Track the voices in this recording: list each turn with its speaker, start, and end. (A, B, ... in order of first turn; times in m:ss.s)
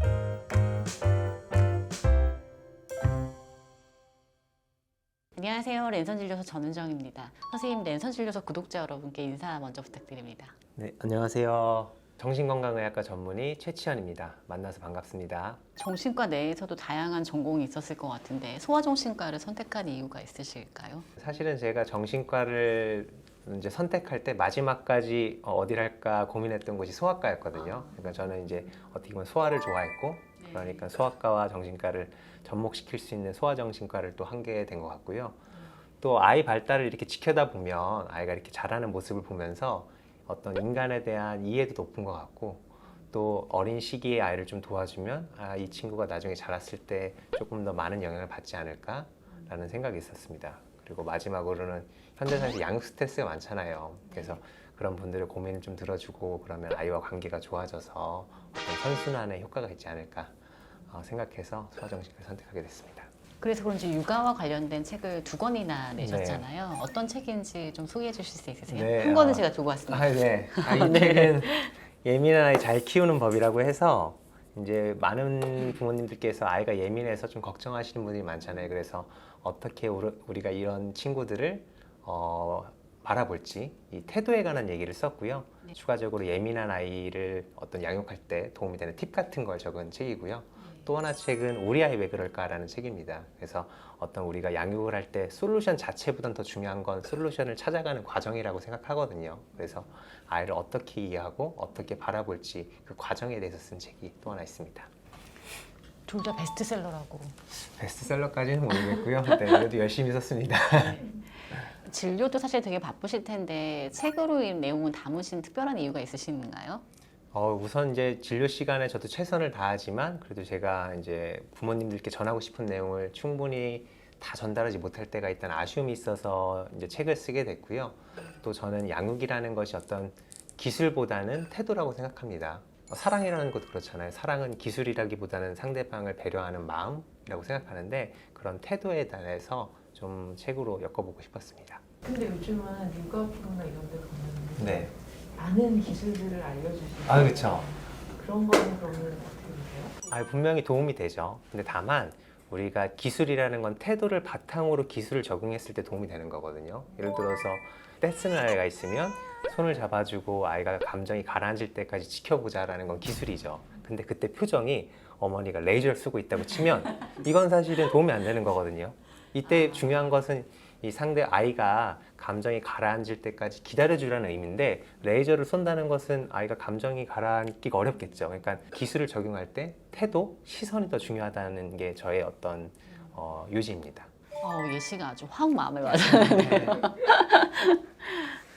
0:05.3-0:10.5 A
0:10.8-0:15.6 B
0:15.8-0:21.1 A
0:21.2-0:35.4 B
0:27.6-0:28.0 A
0:30.4-0:30.8 A
0:36.0-1:03.1 B
0:54.1-0:54.4 A
1:03.4-1:11.7 A
1:06.0-1:06.5 B
1:08.7-1:44.9 B
1:46.1-1:47.4 A
1:47.6-1:51.1 B
1:50.7-1:56.8 A
1:57.3-2:21.8 B
2:22.0-2:30.0 C
2:24.6-2:24.9 B
2:27.1-2:27.7 B
2:30.1-3:04.1 B
3:04.4-3:08.4 A
3:05.9-3:06.8 B